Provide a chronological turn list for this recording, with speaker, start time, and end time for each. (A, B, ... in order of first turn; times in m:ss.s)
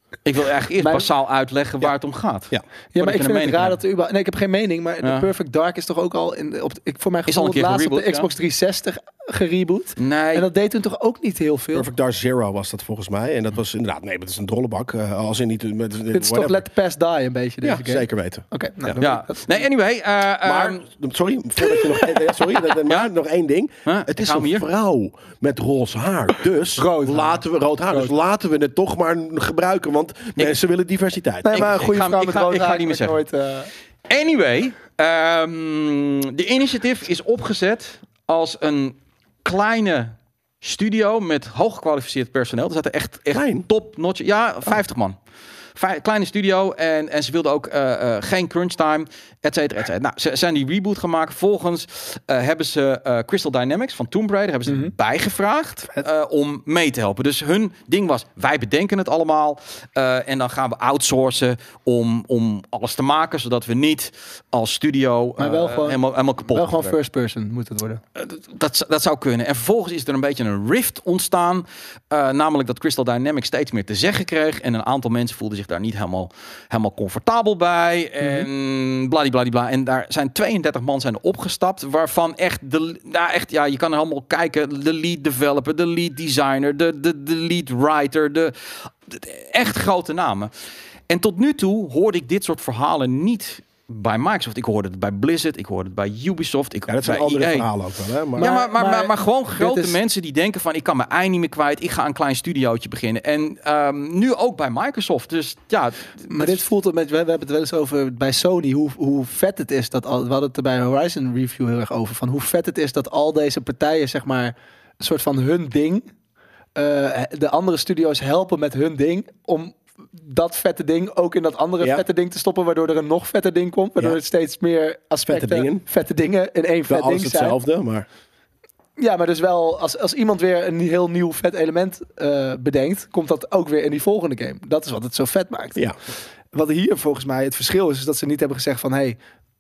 0:00.2-0:03.8 A
0:00.8-0:01.1 B
0:03.0-0:11.9 B
0:05.0-0:05.3 A
0:07.3-0:08.3 A
0:10.0-0:10.5 A
0:11.7-0:16.7 C
0:16.1-0:19.6 B
0:17.6-0:19.0 C
0:19.0-0:20.8 A
0:20.4-0:31.7 C
0:21.6-0:22.3 B
0:23.9-0:24.7 A
0:26.8-0:28.1 B
0:31.4-0:33.7 B
0:31.5-0:33.2 A
0:34.1-0:45.2 A
0:43.3-0:43.6 C
0:45.8-1:07.0 A
0:54.7-0:54.9 B
1:05.4-1:08.0 B
1:08.2-1:30.5 A
1:31.1-1:37.7 A
1:36.9-1:38.5 C
1:38.4-1:46.6 A
1:38.4-1:40.0 B
1:46.3-1:56.1 B
1:56.8-2:07.6 B
2:05.3-2:05.8 C
2:06.9-2:08.1 C
2:09.0-2:15.8 B
2:16.5-2:19.2 B